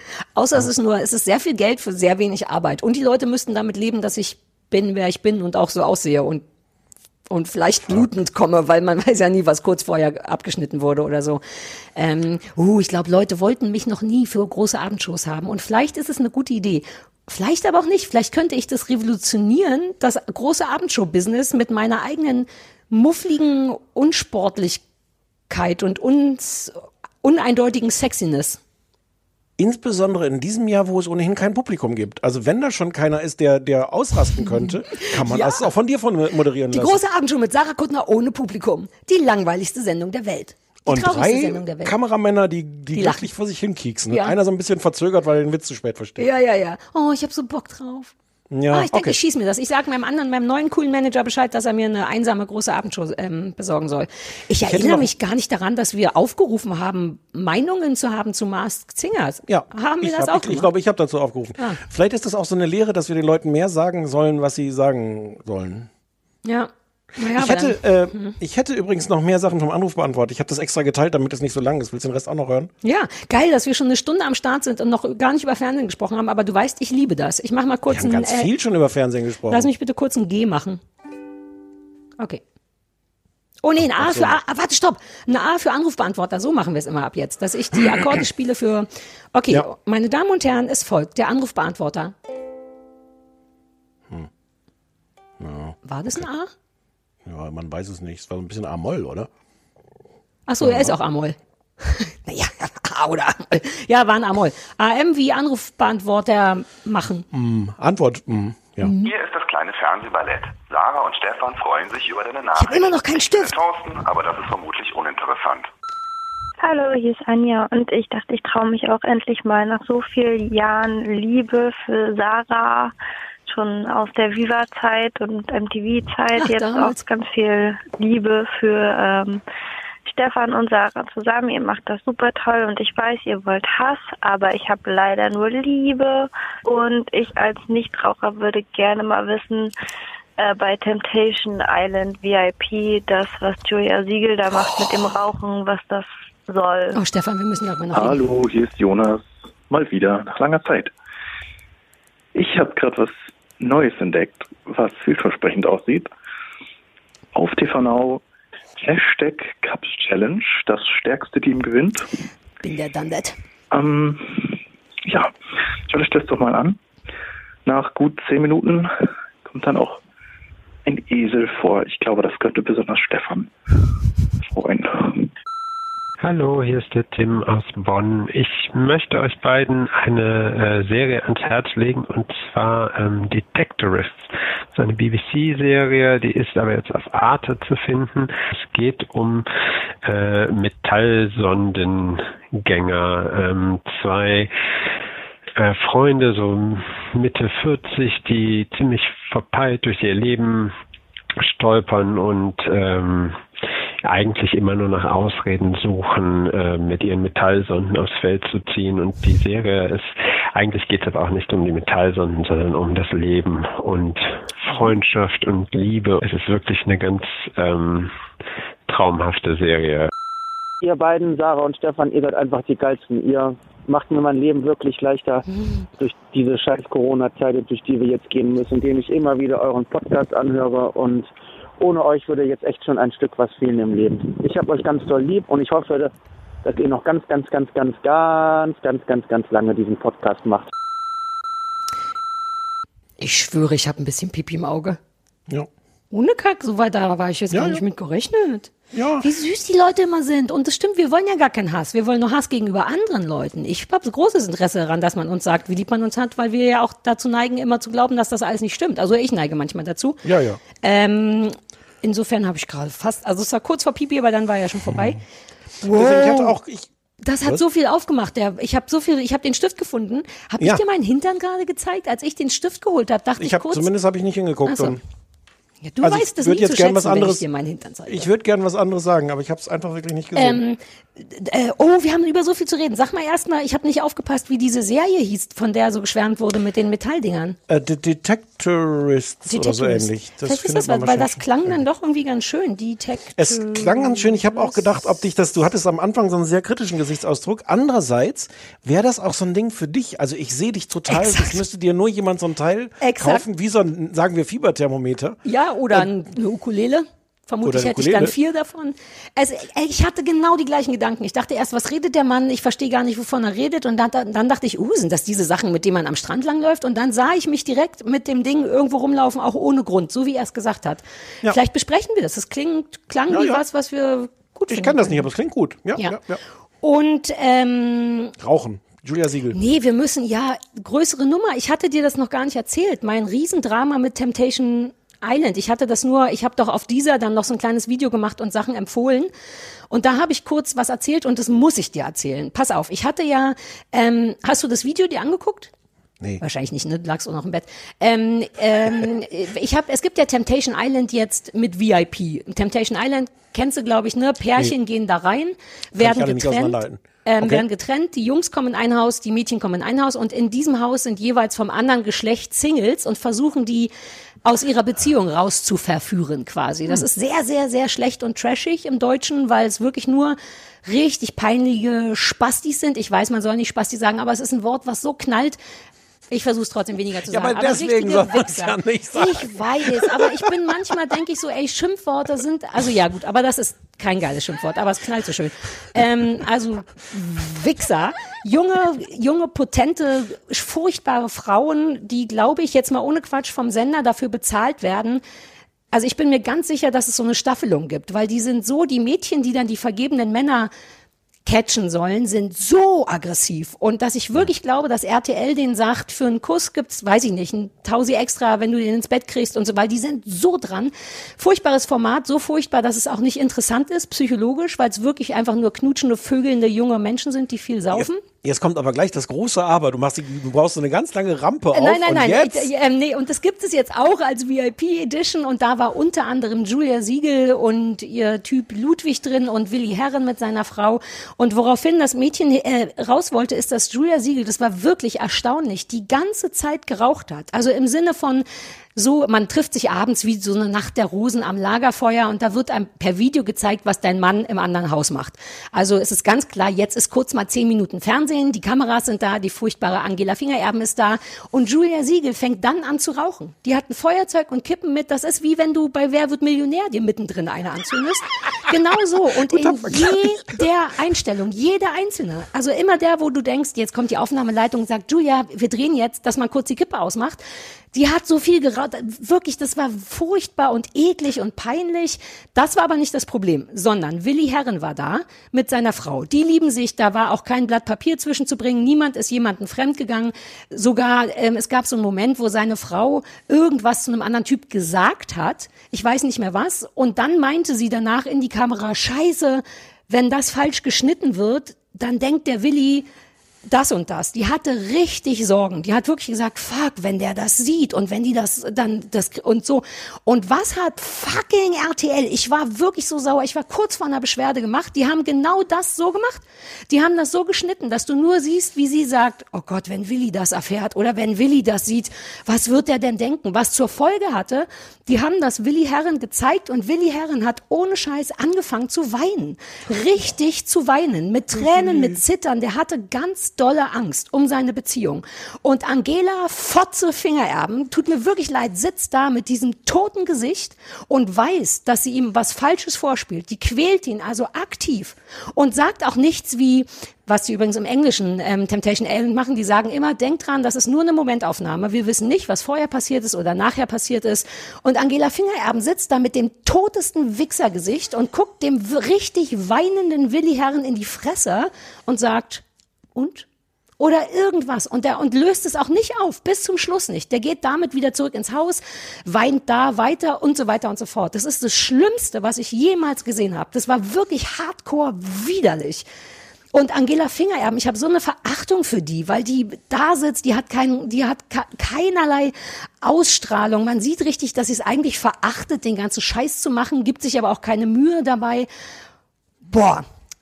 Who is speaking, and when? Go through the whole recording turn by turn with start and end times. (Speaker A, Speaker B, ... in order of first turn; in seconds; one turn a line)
Speaker A: 0.4-6.4
Speaker A: 7.3-11.4
Speaker A: 12.0-24.8
Speaker A: 25.5-28.6
Speaker B: 29.6-37.0
Speaker A: 35.1-35.7
Speaker A: 36.7-41.9
Speaker B: 40.9-46.3
Speaker A: 42.9-43.3
Speaker A: 44.1-44.4
Speaker A: 46.2-48.1
Speaker B: 48.5-49.2
Speaker A: 48.7-60.7
Speaker B: 54.6-55.1
Speaker B: 59.5-65.9
Speaker A: 66.5-68.4
Speaker B: 67.3-72.7
Speaker A: 72.8-78.5
Speaker B: 77.9-79.7
Speaker A: 79.5-80.8
Speaker A: 83.6-92.1
Speaker B: 83.8-84.4
Speaker B: 95.4-96.2
Speaker A: 95.8-96.5
Speaker B: 97.2-99.3
Speaker A: 100.5-107.3
Speaker B: 100.6-101.0
Speaker B: 107.3-108.9
Speaker A: 108.8-109.1
Speaker C: 109.0-115.7
Speaker A: 112.5-113.5
Speaker D: 116.6-122.9
Speaker D: 123.5-129.4
Speaker A: 126.4-127.0
Speaker D: 130.1-139.7
Speaker D: 140.4-147.0
Speaker A: 146.9-148.2
Speaker E: 147.9-150.9
Speaker E: 152.3-156.1
Speaker E: 157.3-158.2
Speaker E: 158.8-162.1
Speaker A: 162.6-163.4
Speaker E: 163.7-165.3
Speaker E: 165.9-166.8
Speaker E: 167.7-168.9
Speaker E: 169.4-170.0
Speaker E: 170.8-173.8
Speaker E: 174.4-175.3
Speaker F: 176.2-189.5
Speaker F: 190.0-194.5
Speaker F: 195.6-200.8
Speaker F: 201.5-203.4
Speaker F: 204.0-218.1
Speaker F: 218.9-220.1
Speaker G: 220.8-225.5
Speaker G: 226.0-236.1
Speaker G: 236.6-240.7
Speaker A: 243.2-245.0
Speaker A: 246.1-260.2
Speaker B: 247.5-247.8
Speaker B: 248.9-249.3
Speaker B: 260.2-260.6
Speaker A: 260.8-265.2
Speaker A: 265.8-266.6
Speaker B: 265.9-266.9
Speaker A: 267.2-273.9
Speaker B: 273.4-275.0
Speaker A: 274.7-275.0
Speaker A: 275.8-278.3
Speaker B: 276.0-277.4
Speaker B: 278.1-280.6
Speaker A: 280.4-287.6
Speaker B: 287.7-291.4
Speaker A: 289.5-294.8
Speaker B: 293.4-305.4
Speaker A: 301.1-301.6
Speaker A: 303.0-303.4
Speaker A: 305.5-325.3
Speaker B: 307.6-308.4
Speaker B: 323.3-323.6
Speaker B: 324.7-326.4
Speaker A: 326.8-328.3
Speaker B: 328.4-329.6
Speaker A: 329.5-339.3
Speaker A: 339.9-345.7
Speaker A: 346.4-363.9
Speaker B: 356.0-357.6
Speaker A: 364.4-375.6
Speaker A: 376.3-395.2
Speaker B: 377.3-381.1
Speaker A: 395.9-400.7
Speaker A: 401.4-418.2
Speaker B: 417.9-422.7
Speaker A: 421.7-438.4
Speaker A: 439.0-493.1
Speaker B: 459.4-460.6
Speaker A: 493.7-552.6
Speaker B: 521.7-522.2
Speaker A: 553.1-553.5
Speaker A: 554.0-566.0
Speaker A: 566.7-578.7
Speaker A: 579.6-580.1